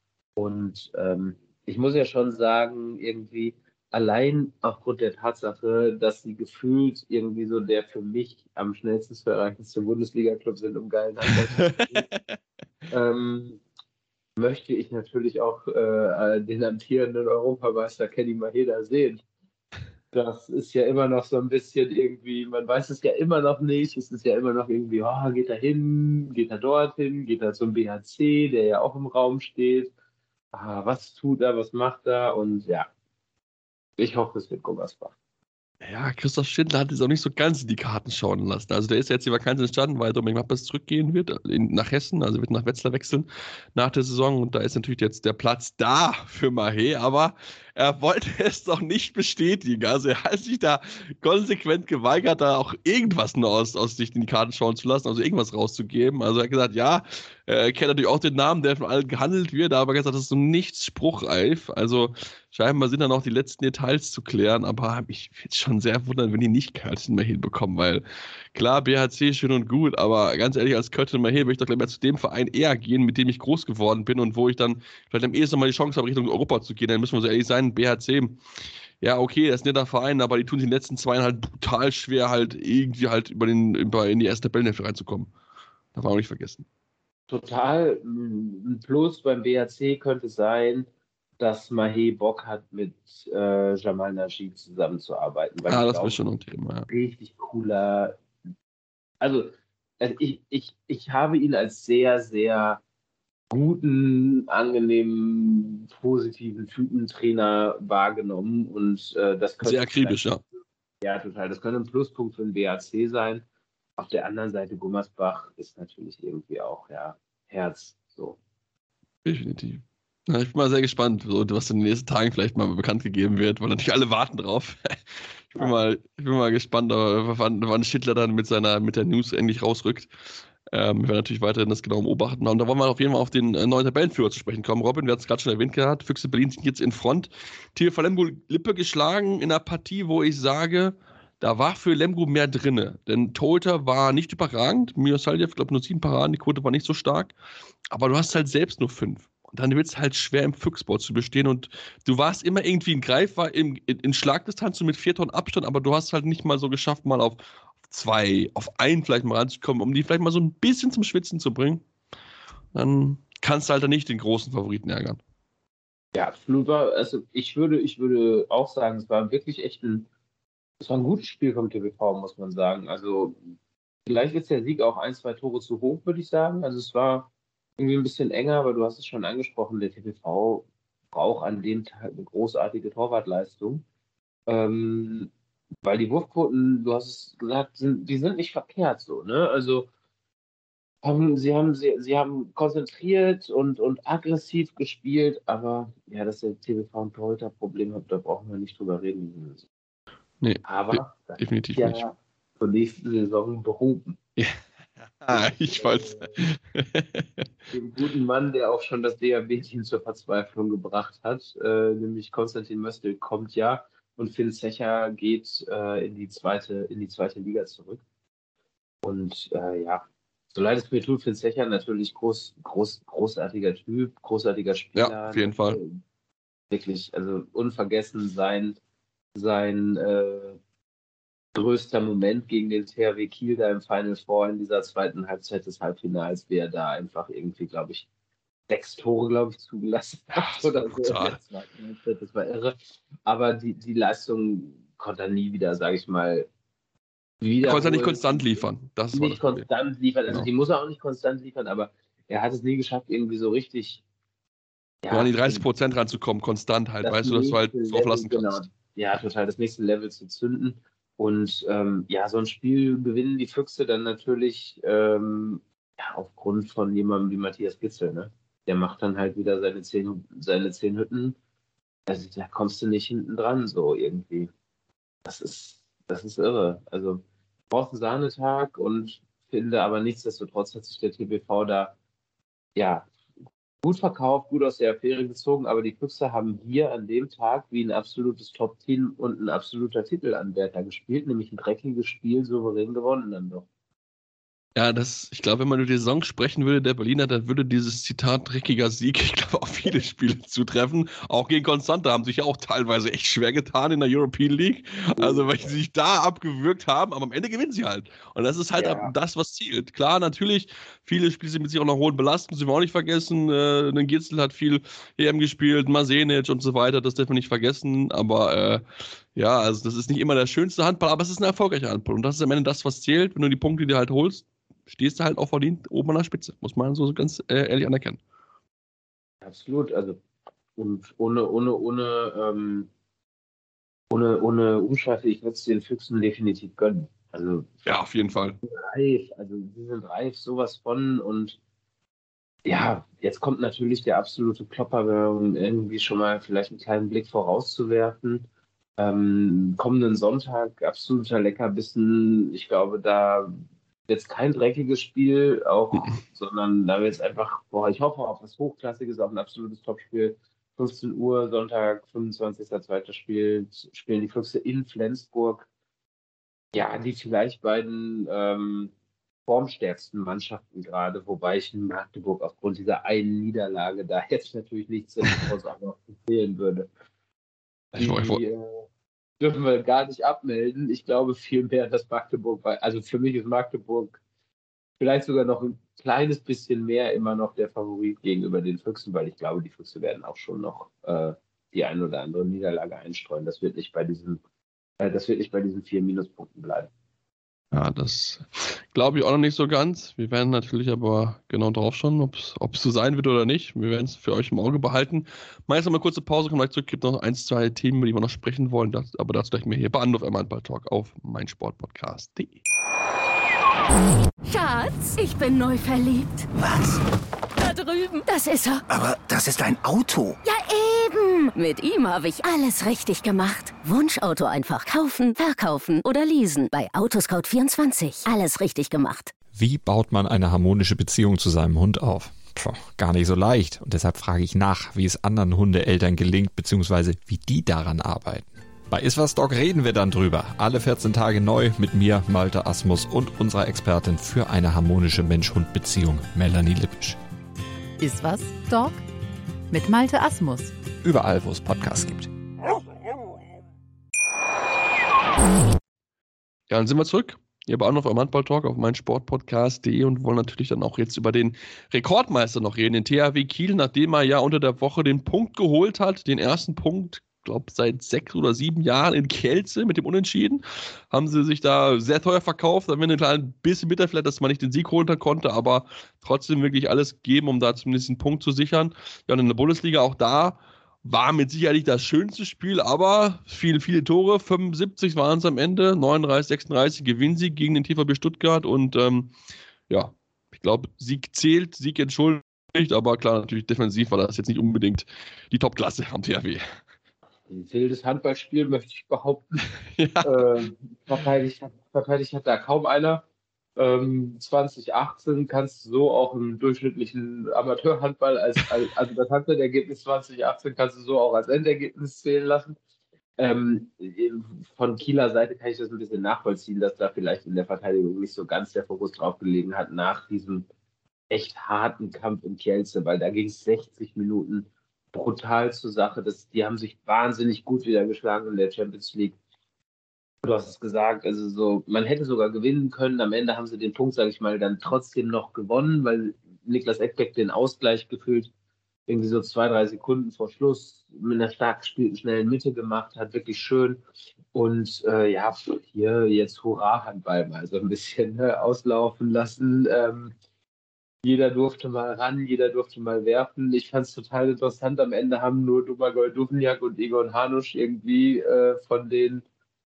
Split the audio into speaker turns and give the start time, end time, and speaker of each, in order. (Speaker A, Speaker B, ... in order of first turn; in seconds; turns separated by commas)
Speaker A: 0.4-12.1, Speaker B: 11.5-12.2, Speaker A: 12.9-13.6, Speaker A: 14.4-19.2, Speaker A: 20.1-29.9, Speaker A: 30.5-32.9, Speaker A: 34.0-35.1, Speaker B: 35.8-78.4, Speaker B: 79.0-85.3, Speaker B: 85.9-86.7, Speaker A: 87.3-90.9, Speaker A: 91.4-96.2, Speaker B: 95.7-96.9, Speaker A: 96.9-98.2, Speaker A: 99.2-102.8, Speaker A: 103.5-110.2, Speaker B: 109.6-110.4, Speaker A: 111.0-113.4, Speaker A: 114.0-118.4, Speaker B: 119.2-130.1, Speaker B: 130.7-147.3, Speaker B: 147.9-161.8, Speaker B: 162.7-165.2, Speaker A: 166.1-170.1, Speaker A: 170.8-173.3, Speaker A: 174.1-183.8, Speaker A: 184.5-185.3, Speaker A: 185.8-189.9, Speaker A: 191.0-199.7, Speaker B: 200.4-202.0, Speaker A: 200.6-204.2, Speaker B: 205.2-207.4, Speaker A: 205.3-206.4, Speaker A: 207.7-218.0, Speaker A: 219.0-226.0, Speaker B: 224.9-225.8, Speaker A: 226.7-228.8, Speaker A: 229.3-230.6, Speaker A: 231.5-238.1, Speaker A: 238.7-246.5, Speaker B: 240.3-241.4, Speaker A: 247.4-254.0, Speaker B: 247.6-249.7, Speaker A: 255.0-255.7, Speaker B: 255.1-258.6, Speaker A: 257.0-271.4, Speaker A: 272.1-274.5, Speaker A: 275.2-281.9, Speaker A: 282.8-283.1, Speaker A: 283.8-293.7, Speaker B: 294.7-318.8, Speaker A: 305.2-305.8, Speaker A: 308.8-309.1, Speaker B: 319.3-328.2, Speaker A: 329.4-330.2, Speaker A: 330.8-332.9, Speaker A: 334.1-337.7, Speaker B: 337.9-338.6, Speaker A: 338.6-341.6, Speaker A: 342.6-348.4, Speaker A: 349.0-365.7, Speaker B: 355.9-356.2, Speaker A: 366.7-368.9, Speaker A: 369.4-376.9, Speaker B: 377.9-378.4, Speaker A: 377.9-378.9, Speaker A: 379.4-384.2, Speaker A: 385.0-394.4, Speaker A: 395.0-396.9, Speaker B: 397.7-412.6, Speaker C: 414.4-416.5, Speaker D: 416.5-417.0, Speaker C: 417.6-418.8, Speaker D: 418.9-420.4, Speaker C: 420.4-429.3, Speaker E: 429.5-447.2, Speaker F: 448.0-449.0, Speaker F: 449.7-450.7, Speaker E: 451.0-452.2, Speaker B: 456.7-489.3, Speaker B: 489.9-496.7, Speaker A: 497.5-499.6, Speaker B: 499.9-500.6, Speaker A: 500.2-503.2, Speaker A: 503.8-512.8, Speaker A: 513.4-520.7, Speaker A: 521.3-529.4, Speaker A: 530.4-538.5, Speaker A: 539.1-544.0, Speaker A: 544.5-550.3, Speaker A: 551.2-559.4